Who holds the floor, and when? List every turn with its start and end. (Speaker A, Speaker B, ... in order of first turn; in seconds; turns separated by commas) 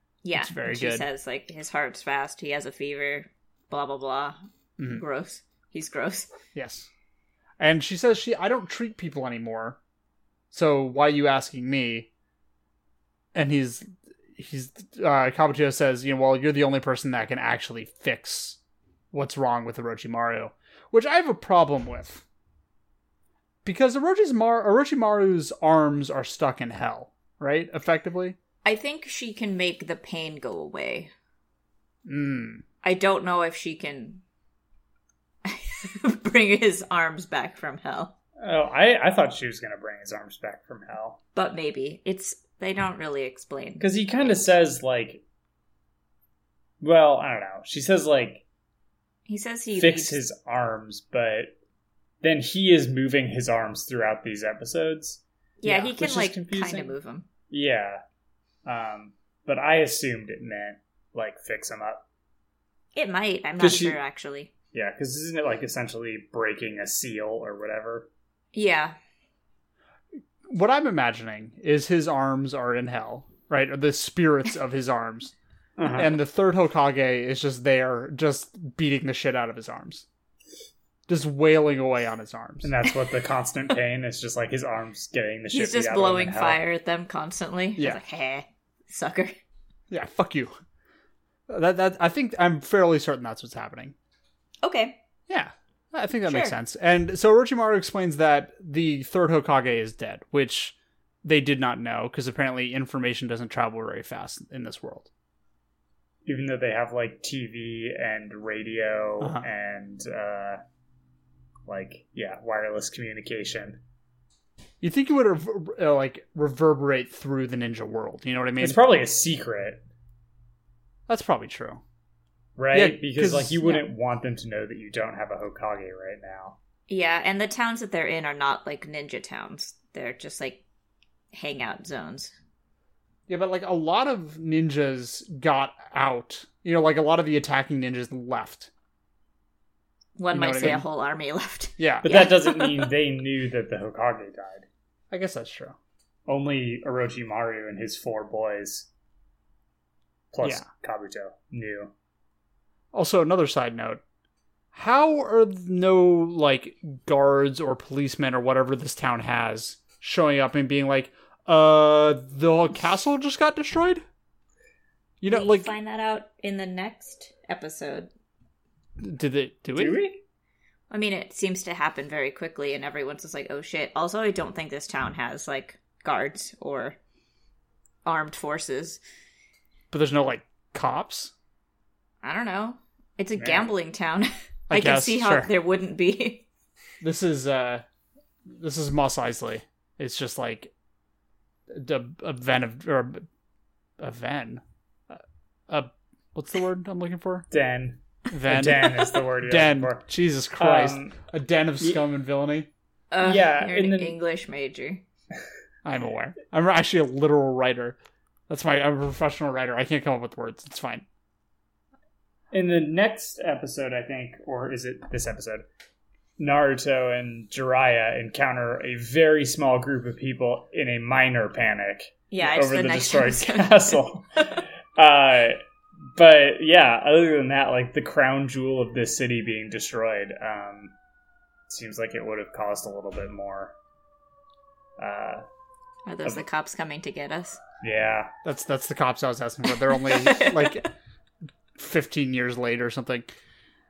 Speaker A: 0.2-4.4, Speaker B: 0.3-1.1, Speaker A: 5.0-6.3, Speaker B: 6.5-6.9, Speaker B: 7.6-9.8, Speaker B: 10.5-12.1, Speaker B: 13.3-18.6, Speaker B: 19.1-22.2, Speaker B: 23.6-28.4, Speaker A: 28.6-31.1, Speaker B: 32.1-32.6, Speaker A: 32.8-34.2, Speaker A: 35.5-38.1, Speaker C: 38.4-41.2, Speaker A: 41.3-44.4, Speaker C: 43.8-45.2, Speaker C: 46.8-48.4, Speaker A: 49.3-50.2, Speaker C: 49.8-51.6, Speaker C: 52.2-57.0, Speaker A: 55.6-57.3, Speaker C: 57.5-58.0, Speaker C: 58.6-62.0, Speaker A: 63.0-64.5, Speaker C: 63.6-64.0, Speaker C: 64.7-68.1, Speaker A: 68.5-69.0, Speaker B: 70.5-75.3, Speaker C: 75.8-76.2, Speaker B: 76.0-80.0, Speaker B: 81.1-82.7, Speaker C: 82.6-86.6, Speaker A: 85.5-89.4, Speaker B: 89.9-90.6, Speaker B: 91.5-94.0, Speaker A: 94.6-95.0, Speaker B: 95.3-105.1, Speaker A: 96.3-96.5, Speaker C: 106.3-110.6, Speaker B: 109.2-109.5, Speaker C: 111.7-113.8, Speaker B: 114.8-118.8, Speaker C: 118.6-119.8, Speaker B: 121.1-121.8, Speaker C: 122.6-126.6, Speaker B: 122.7-123.7, Speaker A: 126.9-130.6, Speaker A: 131.3-132.3, Speaker B: 133.3-138.7, Speaker A: 140.2-142.9, Speaker B: 140.3-140.8, Speaker B: 141.8-142.1, Speaker C: 142.0-144.7, Speaker B: 145.1-145.8, Speaker C: 146.3-148.9, Speaker C: 150.3-151.9, Speaker B: 152.9-154.0, Speaker B: 154.7-164.0, Speaker B: 165.2-165.7, Speaker A: 165.3-168.1, Speaker B: 169.0-170.0, Speaker C: 169.8-170.2, Speaker A: 170.9-177.0, Speaker A: 178.1-179.0, Speaker B: 179.9-181.3, Speaker A: 182.2-186.4, Speaker C: 183.4-183.7, Speaker B: 184.7-185.5, Speaker B: 187.0-187.8, Speaker B: 188.5-190.7, Speaker B: 191.7-193.3, Speaker B: 194.0-197.5, Speaker C: 197.5-200.1, Speaker B: 198.3-202.7, Speaker C: 200.6-201.2, Speaker A: 203.1-205.0, Speaker C: 203.2-204.2, Speaker B: 205.8-208.0, Speaker B: 208.5-211.1, Speaker C: 212.5-215.7, Speaker C: 216.4-225.6, Speaker A: 222.3-224.4, Speaker C: 226.2-230.9, Speaker C: 231.7-233.8, Speaker C: 235.0-235.4, Speaker A: 236.1-237.6, Speaker C: 237.8-238.3, Speaker B: 238.4-240.9, Speaker A: 239.9-240.9, Speaker B: 241.8-243.3